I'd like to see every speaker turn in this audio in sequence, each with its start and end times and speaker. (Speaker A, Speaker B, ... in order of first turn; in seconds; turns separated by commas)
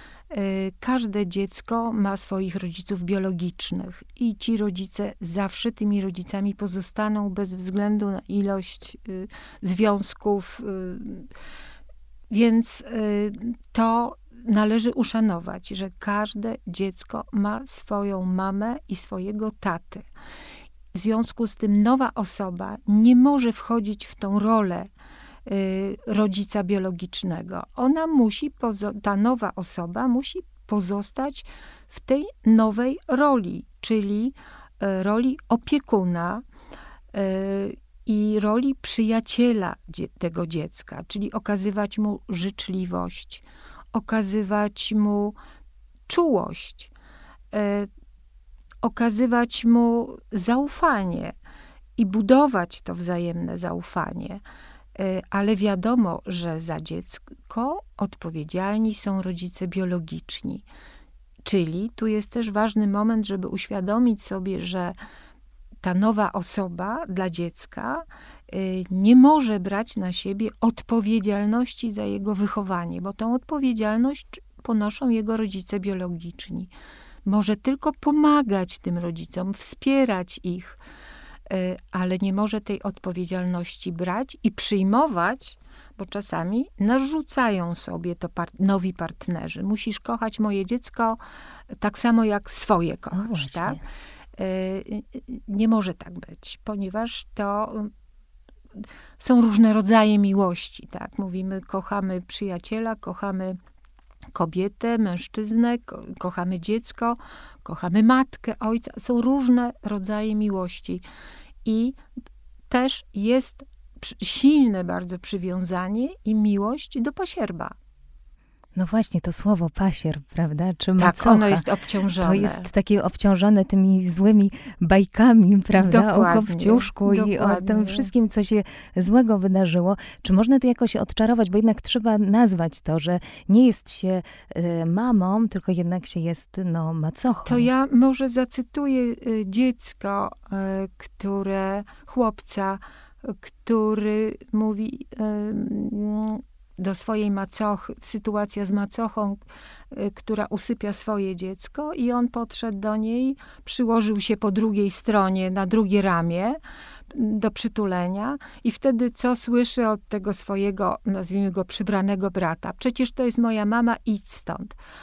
Speaker A: 0.3-11.3, Speaker A: 12.3-20.1, Speaker A: 20.9-24.9, Speaker A: 25.4-36.4, Speaker A: 37.1-45.4, Speaker A: 46.1-46.9, Speaker A: 47.5-47.9, Speaker A: 48.8-51.3, Speaker A: 52.0-54.4, Speaker A: 54.9-60.6, Speaker A: 61.4-64.9, Speaker A: 65.8-76.7, Speaker A: 77.2-80.8, Speaker A: 81.5-91.2, Speaker A: 91.8-93.8, Speaker B: 93.1-93.8, Speaker A: 94.3-97.9, Speaker A: 98.8-103.6, Speaker A: 104.3-111.0, Speaker A: 111.6-112.0, Speaker A: 112.7-117.7, Speaker B: 118.7-121.6, Speaker A: 121.0-122.7, Speaker B: 122.2-137.7, Speaker A: 125.8-128.1, Speaker A: 137.4-156.6, Speaker A: 157.1-164.8